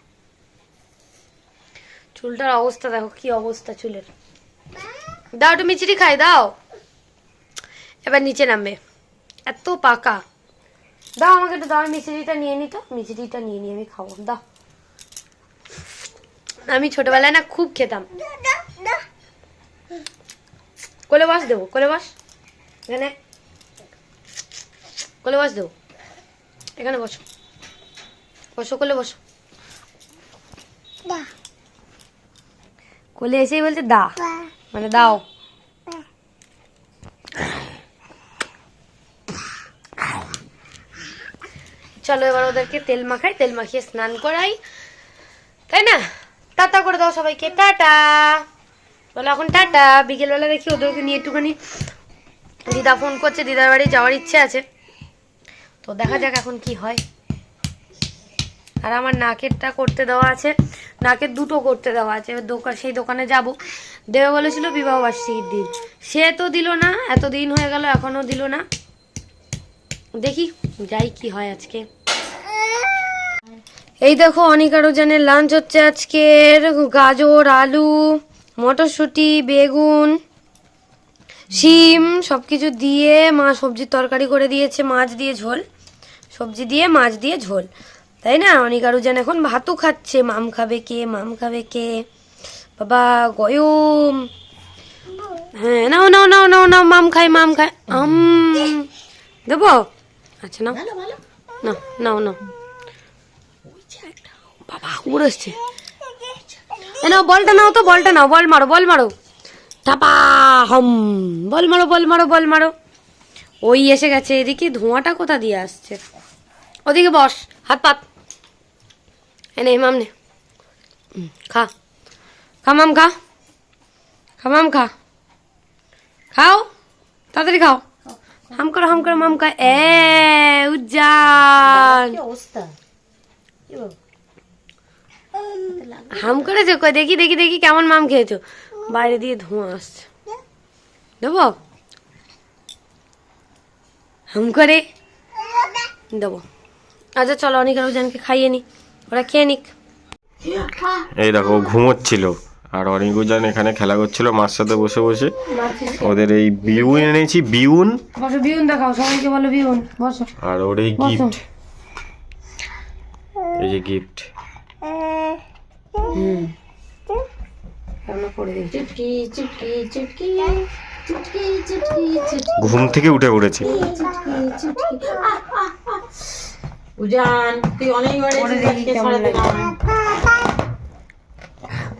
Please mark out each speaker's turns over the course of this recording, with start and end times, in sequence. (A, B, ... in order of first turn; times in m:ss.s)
0:02.1-0:04.1 A
0:05.3-0:06.6 A
0:08.0-0:08.8 A
0:09.5-0:10.2 A
0:11.2-0:14.4 A
0:16.6-0:18.1 A
0:21.1-0:22.1 A
0:22.9-0:23.1 A
0:25.2-0:25.7 A
0:26.8-0:27.2 A
0:28.6-0:29.2 A
0:33.2-0:34.1 A
0:34.7-0:35.2 A
0:42.0-0:44.6 A
0:45.7-0:48.4 A
0:49.1-0:51.6 A
0:52.6-0:54.6 A
0:55.8-0:57.0 A
0:58.8-1:03.6 A
1:04.1-1:08.6 A
1:10.2-1:11.8 A
1:14.0-1:20.2 A
1:21.5-1:25.6 A
1:26.3-1:27.7 A
1:28.2-1:32.0 A
1:32.8-1:34.3 A
1:35.5-1:38.9 A
1:39.5-1:39.8 A
1:40.4-1:40.9 A
1:41.6-1:42.4 A
1:44.7-1:45.6 A
1:47.0-1:49.1 A
1:49.8-1:52.7 A
1:53.6-1:56.0 A
1:56.9-1:58.0 A
1:59.6-2:00.1 A
2:01.2-2:01.7 A
2:02.6-2:03.1 A
2:04.4-2:04.9 A
2:06.3-2:06.6 A
2:07.3-2:07.8 A
2:08.5-2:12.2 A
2:11.6-2:12.7 B
2:13.7-2:13.9 B
2:15.5-2:16.3 B
2:16.1-2:20.1 A
2:21.2-2:21.5 A
2:24.3-2:24.8 A
2:26.1-2:26.4 A
2:27.2-2:29.7 A
2:30.9-2:35.4 C
2:35.6-2:36.0 A
2:35.9-2:38.0 C
2:38.2-2:40.3 A
2:40.4-2:41.4 C
2:41.0-2:41.4 A
2:43.6-2:44.3 C
2:46.1-2:46.5 A
2:48.1-2:48.9 A
2:48.7-2:52.7 B
2:52.6-2:53.7 C
2:53.7-2:56.0 B
2:57.0-2:59.7 B
2:58.3-2:59.6 A